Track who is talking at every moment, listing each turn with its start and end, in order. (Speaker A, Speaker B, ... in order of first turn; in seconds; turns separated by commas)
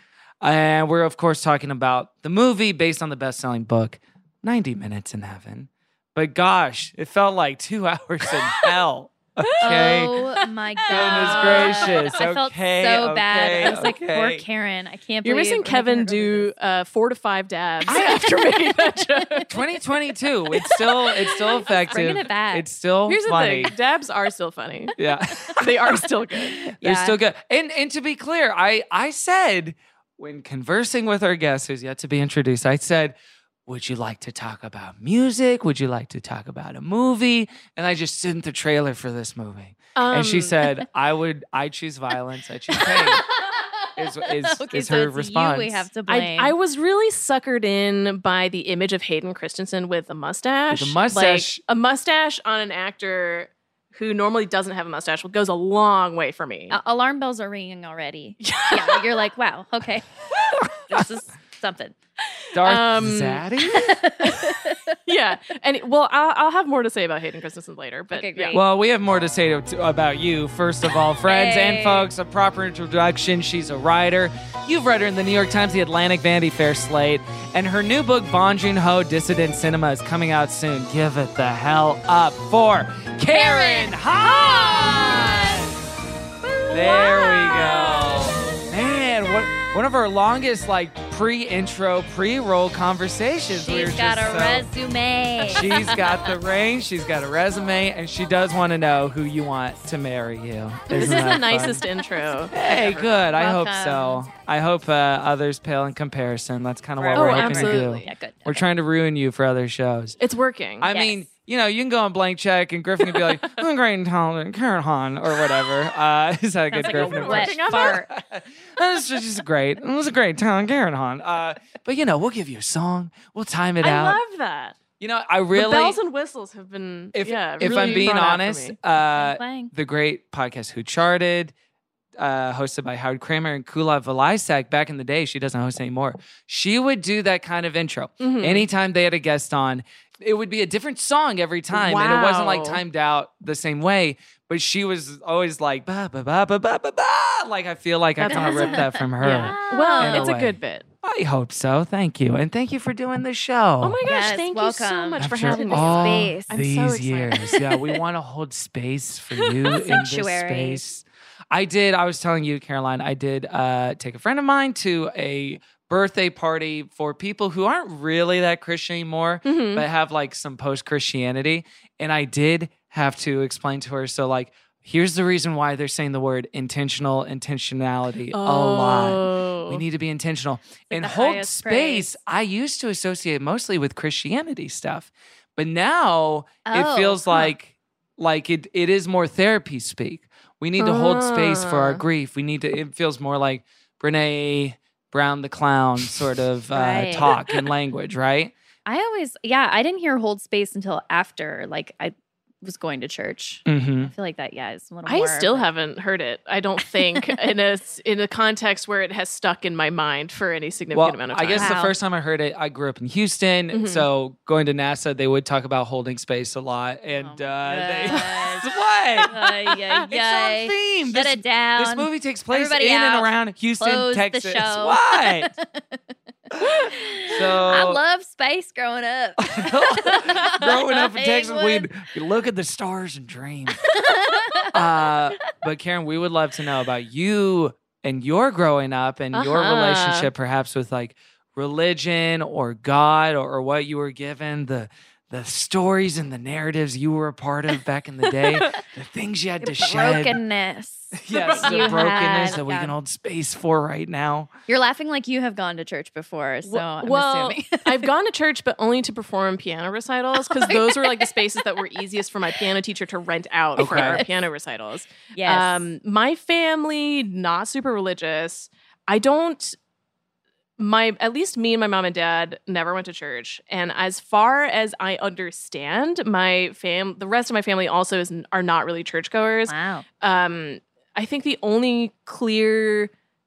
Speaker A: 0.4-10.1, Speaker B: 9.6-10.1, Speaker C: 9.6-16.5, Speaker A: 10.9-14.4, Speaker B: 10.9-12.0, Speaker B: 15.2-19.5, Speaker A: 17.9-18.2, Speaker C: 19.2-19.4, Speaker A: 19.5-23.7, Speaker C: 21.6-22.7, Speaker B: 23.1-24.9, Speaker A: 25.0-26.0, Speaker B: 25.6-26.6, Speaker C: 26.6-27.2, Speaker A: 26.7-33.1, Speaker A: 33.7-43.2, Speaker B: 40.0-40.6, Speaker C: 42.8-46.5, Speaker A: 44.0-45.9, Speaker B: 46.1-56.8, Speaker A: 50.7-51.6, Speaker C: 56.7-61.9, Speaker B: 58.4-59.1, Speaker A: 62.5-63.9, Speaker B: 62.6-63.4, Speaker C: 63.7-65.0, Speaker B: 64.2-68.6, Speaker C: 68.1-68.6, Speaker A: 68.5-85.7, Speaker C: 71.3-72.1, Speaker C: 83.3-85.7, Speaker C: 86.7-88.6, Speaker A: 86.7-94.7, Speaker C: 93.5-96.0, Speaker A: 95.5-101.8, Speaker B: 100.9-103.1, Speaker A: 102.5-110.2, Speaker C: 103.3-104.3, Speaker C: 107.0-108.7, Speaker B: 107.1-108.1, Speaker B: 110.2-110.9, Speaker A: 110.8-124.2, Speaker C: 110.9-111.3, Speaker C: 116.7-118.1, Speaker B: 116.8-118.0, Speaker B: 123.8-124.8, Speaker A: 125.0-126.0, Speaker B: 125.5-128.8, Speaker A: 127.1-131.5, Speaker C: 127.7-128.0, Speaker C: 129.1-129.7, Speaker A: 132.2-154.0, Speaker B: 138.2-138.7, Speaker B: 141.7-142.8, Speaker B: 148.2-150.8, Speaker C: 148.3-150.3, Speaker B: 153.8-157.8, Speaker C: 154.1-156.5, Speaker A: 155.2-198.5, Speaker C: 159.7-160.8, Speaker B: 169.4-169.8, Speaker B: 178.3-179.8, Speaker C: 180.9-182.2, Speaker C: 186.7-187.5, Speaker B: 190.8-192.0, Speaker C: 196.7-197.3, Speaker C: 198.9-205.7, Speaker A: 203.7-204.1, Speaker B: 205.1-211.8, Speaker C: 206.8-207.3, Speaker A: 210.9-225.5, Speaker C: 211.5-211.9, Speaker B: 213.7-214.1, Speaker C: 217.1-226.0, Speaker A: 226.6-228.0, Speaker C: 226.7-231.9, Speaker A: 229.4-234.0, Speaker C: 233.8-234.7, Speaker A: 234.7-250.4, Speaker B: 239.3-240.3, Speaker C: 249.6-253.0, Speaker A: 251.2-254.5, Speaker B: 251.3-252.5, Speaker C: 254.7-258.1, Speaker B: 256.6-269.8, Speaker C: 260.4-261.6, Speaker A: 263.8-264.2, Speaker C: 263.8-264.4, Speaker C: 265.3-265.9, Speaker B: 270.8-283.1, Speaker C: 279.7-280.1